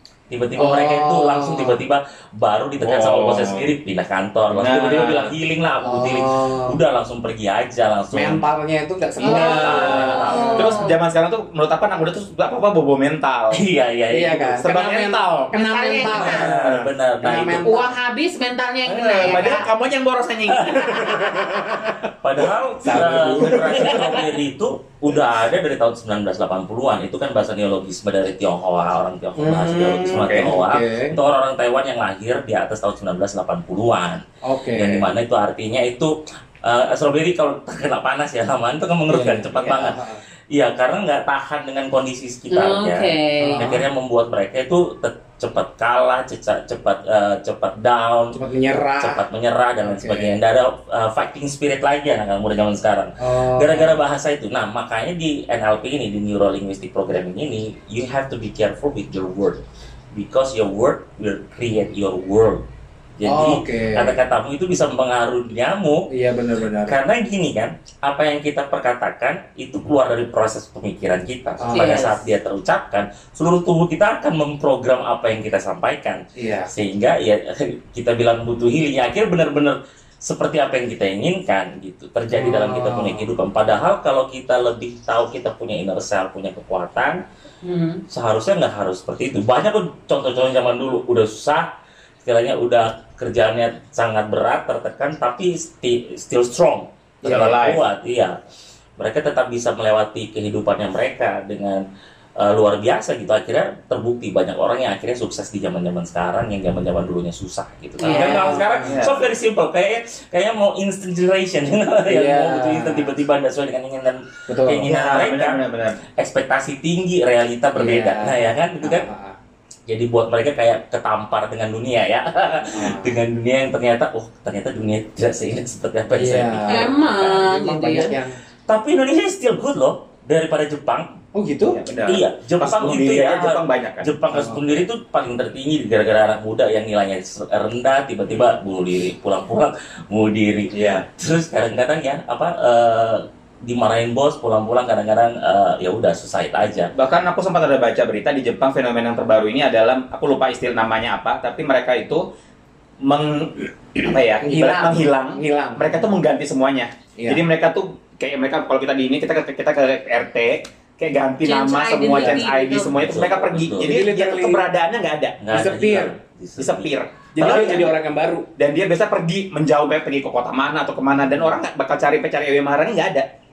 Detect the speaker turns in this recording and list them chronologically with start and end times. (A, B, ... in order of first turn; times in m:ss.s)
0:00.3-0:08.4 A
0:00.6-0:01.8 B
0:02.8-0:03.7 C
0:04.5-0:05.4 C
0:05.8-0:06.8 B
0:08.1-0:10.8 B
0:09.2-0:13.6 C
0:09.2-0:11.0 D
0:09.4-0:10.7 A
0:13.5-0:14.6 A
0:14.1-0:16.7 B
0:14.6-0:15.6 C
0:15.5-0:16.5 D
0:16.1-0:17.7 A
0:16.4-0:16.9 C
0:17.2-0:17.9 B
0:17.5-0:19.7 D
0:19.0-0:21.9 C
0:20.5-0:21.5 A
0:21.6-0:21.9 B
0:22.2-0:40.0 A
0:22.8-0:24.2 B
0:23.6-0:23.9 C
0:29.4-0:31.2 B
0:30.1-0:30.5 C
0:34.4-0:35.1 B
0:39.1-0:40.2 B
0:40.5-0:48.4 A
0:42.5-0:43.7 D
0:43.4-0:43.8 B
0:48.3-0:49.2 B
0:49.0-1:02.6 A
0:49.8-0:50.4 B
0:53.2-0:54.0 B
1:03.2-1:06.1 A
1:03.2-1:04.2 B
1:06.1-1:07.0 B
1:06.8-1:27.2 A
1:11.6-1:12.1 B
1:11.7-1:12.2 D
1:16.4-1:16.7 B
1:22.3-1:23.3 B
1:27.6-1:28.0 D
1:28.1-1:31.7 A
1:32.2-1:38.4 A
1:37.2-1:37.8 C
1:37.2-1:37.6 B
1:39.0-1:41.8 A
1:42.4-1:59.1 A
1:48.0-1:48.6 D
1:48.0-1:49.0 B
1:48.8-1:49.3 C
1:52.1-1:53.1 B
1:54.5-1:54.9 B
1:54.8-1:56.0 C
1:57.7-1:59.4 B
1:59.9-2:07.5 A
2:02.7-2:03.2 B
2:06.1-2:08.4 B
2:06.7-2:08.1 D
2:08.7-2:11.1 A
2:11.3-2:11.8 B
2:11.7-2:14.1 C
2:12.0-2:26.9 A
2:14.3-2:14.8 B
2:20.7-2:21.0 C
2:27.0-2:32.2 C
2:33.0-2:45.4 C
2:34.4-2:36.1 B
2:37.2-2:37.4 B
2:41.4-2:43.0 D
2:43.0-2:44.0 A
2:43.8-2:44.6 B
2:45.4-2:47.7 A
2:45.5-2:46.2 B
2:46.6-2:48.0 C
2:47.3-2:48.5 B
2:48.6-2:53.3 C